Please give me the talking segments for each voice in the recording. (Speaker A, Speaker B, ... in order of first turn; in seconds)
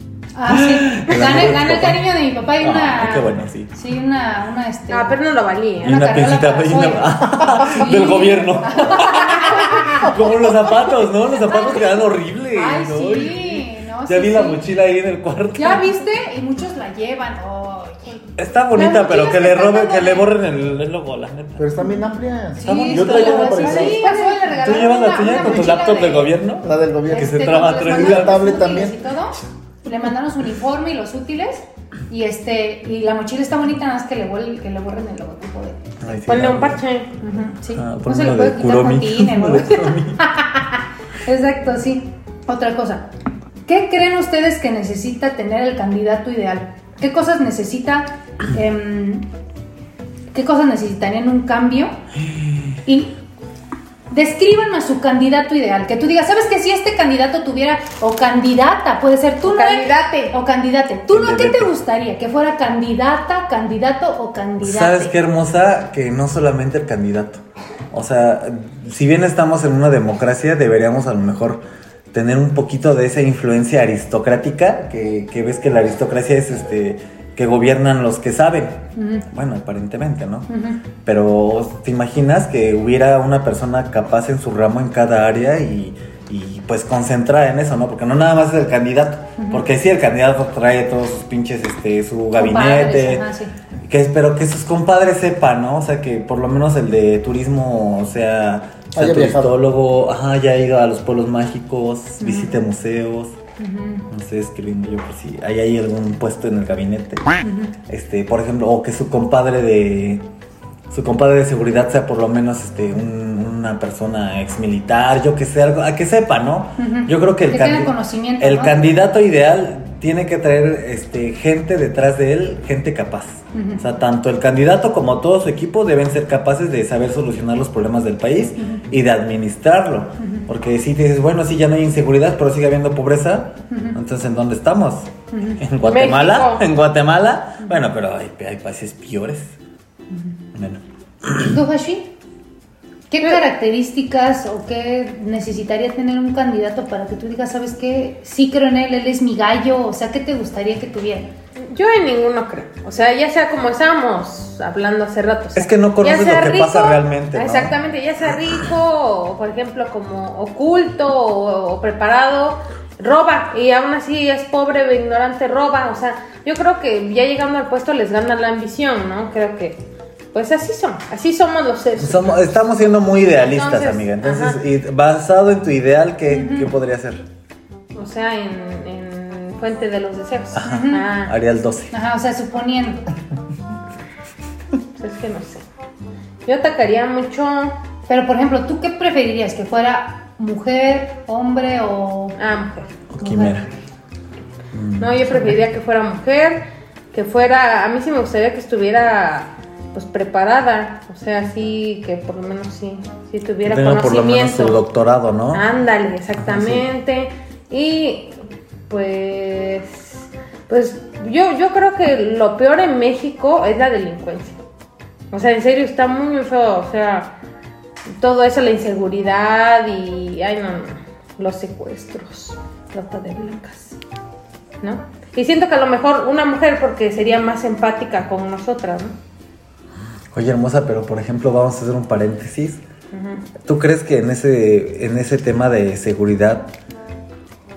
Speaker A: 0.4-5.2, 5.8-10.2, 11.4-14.6, 15.6-20.3, 21.8-26.3, 27.1-35.9, 37.2-43.1, 43.7-49.3, 50.3-52.0, 52.9-53.2, 54.1-65.1, 79.0-79.3, 80.5-80.8, 89.4-89.7, 92.3-93.5, 102.2-102.6, 103.6-104.1, 107.4-107.8, 116.8-119.0, 123.5-123.8, 133.7-134.0, 135.3-135.6, 141.4-142.1, 143.1-151.3, 176.3-176.7, 180.6-181.1, 181.9-183.1, 188.1-192.4, 193.2-193.7
Speaker B: 0.5-3.7, 5.8-15.9, 18.4-21.7, 22.6-23.9, 24.6-28.6, 36.0-36.8, 37.8-40.2, 61.1-61.7, 64.6-71.6, 72.1-80.5, 81.0-93.2, 93.9-103.4, 104.1-107.2, 107.9-110.3, 110.9-139.6, 140.5-141.6, 155.6-157.8, 172.0-177.3, 180.5-181.9, 193.1-193.7, 194.7-195.5, 203.7-205.6, 206.4-206.9, 230.3-232.8, 233.6-236.7
Speaker C: 4.9-6.0, 23.2-24.9, 36.3-37.1, 59.5-60.4, 135.8-136.6, 151.6-172.6, 173.3-174.6, 177.9-181.3, 185.0-185.6, 186.4-187.8, 192.4-192.9, 195.0-204.8, 205.5-208.4, 208.9-214.6, 215.3-217.3, 218.2-224.0, 224.8-229.2, 233.1-233.4
Speaker D: 21.6-24.1, 25.4-25.8, 26.6-29.0, 99.0-99.5